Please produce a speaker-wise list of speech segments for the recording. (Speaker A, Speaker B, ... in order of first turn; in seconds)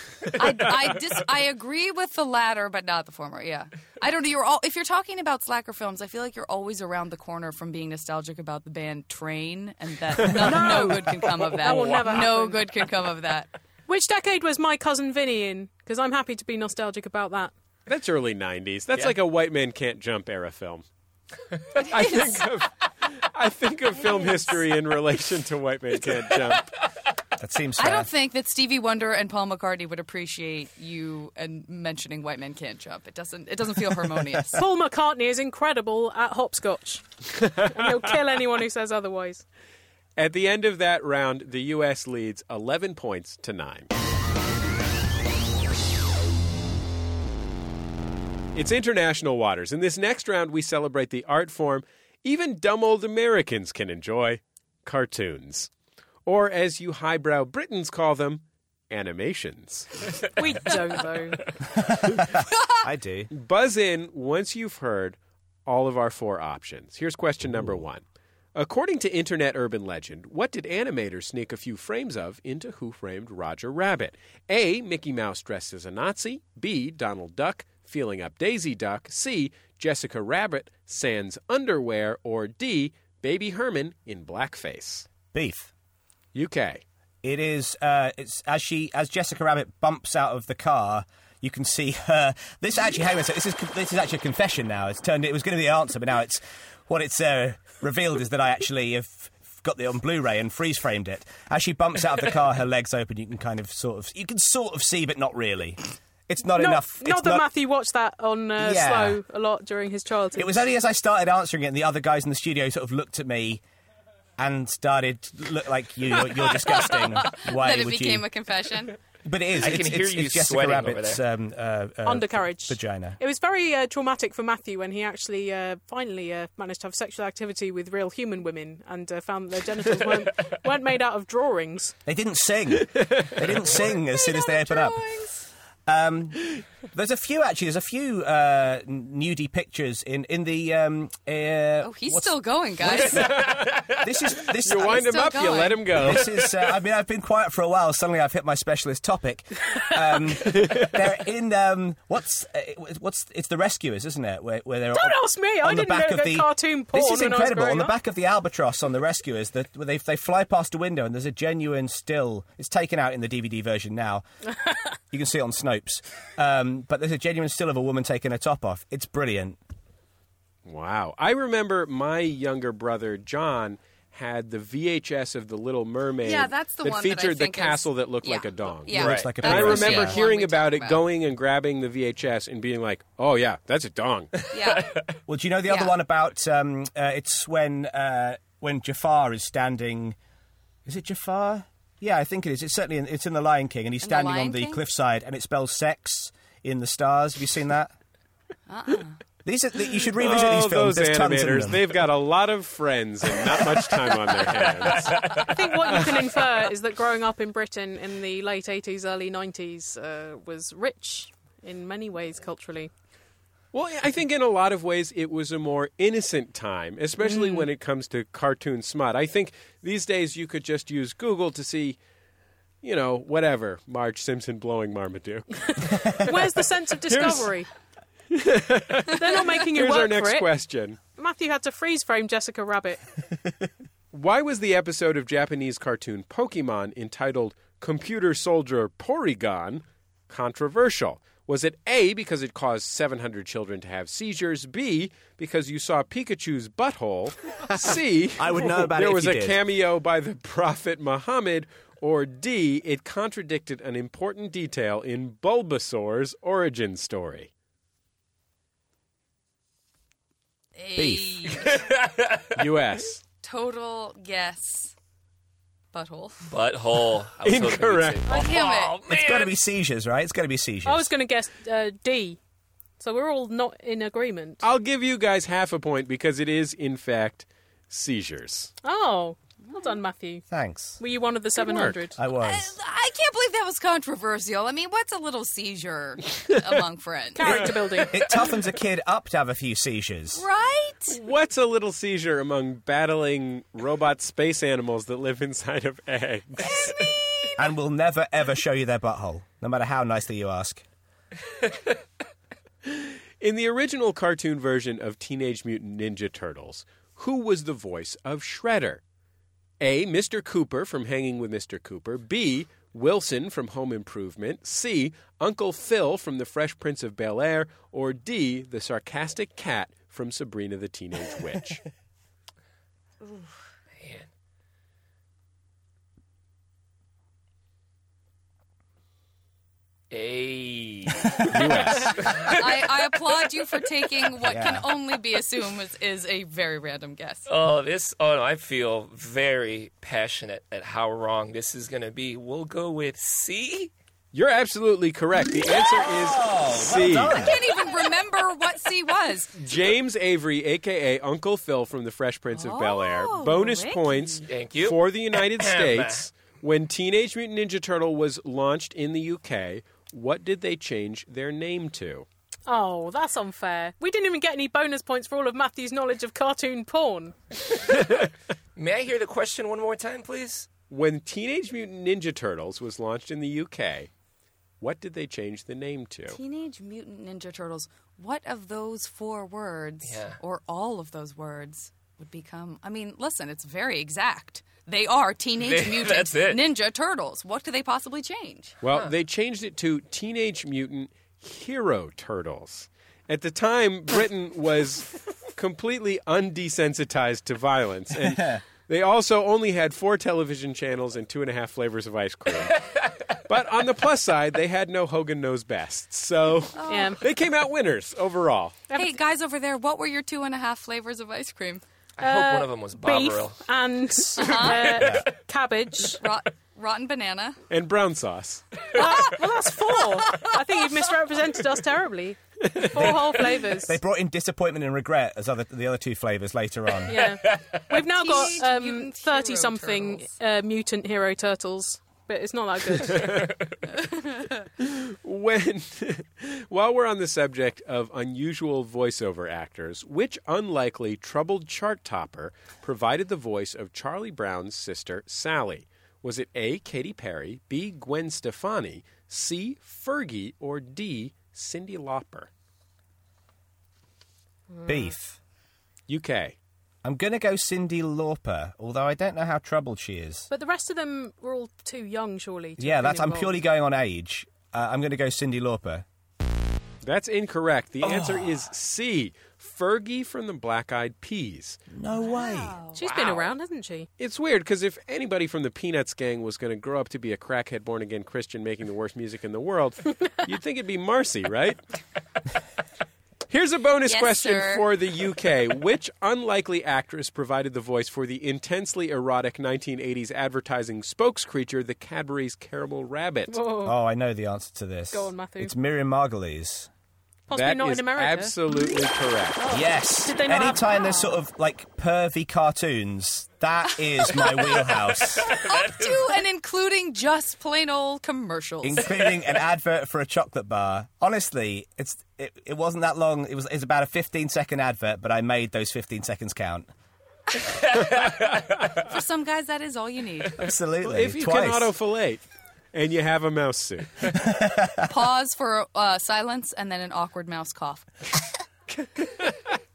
Speaker A: 0.4-13.5, 22.0-22.3, 24.0-24.6, 27.8-34.6, 116.4-119.0, 133.9-135.4, 141.8-143.4, 144.7-146.0, 176.2-181.1, 184.5-185.0, 185.7-186.0, 194.0-194.8, 198.7-199.2, 260.8-261.8, 263.4-264.9, 265.9-266.5, 268.3-268.9, 282.4-287.8, 290.4-291.2, 332.4-337.5, 347.3-349.6, 352.5-354.4, 376.3-388.8, 406.8-407.2, 408.9-411.8, 414.4-415.1, 416.2-417.6, 427.9-430.3, 434.0-434.5, 472.1-473.0, 484.1-484.9, 504.2-509.1, 519.0-520.7, 525.1-528.1
Speaker B: 10.2-12.7, 13.9-17.5, 34.5-37.0, 37.6-39.5, 60.4-61.4, 106.5-110.6, 122.0-131.9, 154.9-157.9, 205.4-212.9, 217.2-217.7, 225.7-227.7, 229.1-230.5, 231.1-233.0, 268.3-268.6, 270.9-272.4, 273.0-274.6, 278.8-280.4, 281.0-282.2, 287.4-288.3, 362.7-367.4, 406.9-407.2, 408.9-409.2, 412.2-416.2, 418.9-424.0, 427.1-433.4, 460.5-463.6, 472.9-474.1, 493.5-494.0, 495.1-495.8, 497.5-498.6, 499.6-501.2
Speaker C: 17.9-20.9, 21.7-26.7, 37.4-38.1, 40.2-43.9, 48.5-55.7, 56.3-60.1, 63.3-68.0, 68.5-85.1, 86.3-86.8, 132.9-133.5, 144.6-146.3, 170.7-184.3, 200.2-205.3, 213.7-222.0, 222.8-226.1, 227.1-227.5, 228.3-231.0, 234.1-257.5, 262.6-263.2, 267.4-268.2, 274.6-278.7, 281.6-282.0, 291.1-297.0, 302.9-309.0, 309.8-321.8, 331.5-332.2, 344.3-347.4, 349.6-362.3, 370.9-374.1, 374.8-376.4, 388.8-408.8, 417.7-418.8, 434.8-452.5, 456.1-456.6, 467.0-471.8, 474.2-481.8, 483.5-493.6, 497.5-499.6, 521.0-524.3, 528.9-529.7
Speaker D: 27.4-28.1, 62.0-63.3, 85.3-85.7, 87.2-107.5, 108.6-109.2, 110.3-113.6, 114.4-118.3, 119.2-123.2, 132.1-135.1, 135.9-145.1, 145.9-164.2, 165.1-169.6, 178.9-180.2, 185.3-190.2, 190.9-197.9, 199.4-201.9, 247.7-249.6, 261.0-261.5, 269.1-271.1, 280.5-281.0, 282.1-282.8, 287.4-290.4, 297.6-300.8, 334.4-334.9, 345.9-347.6, 398.2-398.6, 415.0-415.3, 423.8-427.2, 454.9-455.4, 457.0-460.5, 462.8-466.1, 468.0-468.6, 471.9-472.8, 493.8-496.9, 499.7-505.6, 508.8-516.9, 520.6-521.9, 524.3-525.1
Speaker E: 119.6-121.2, 179.0-179.3, 184.7-185.0, 261.8-262.5, 266.5-269.5, 324.0-324.3, 330.1-331.6, 332.2-332.9, 337.5-343.9, 354.5-356.2, 368.8-370.7, 380.0-380.4, 385.6-386.6, 412.2-413.6, 427.5-427.8, 505.4-506.1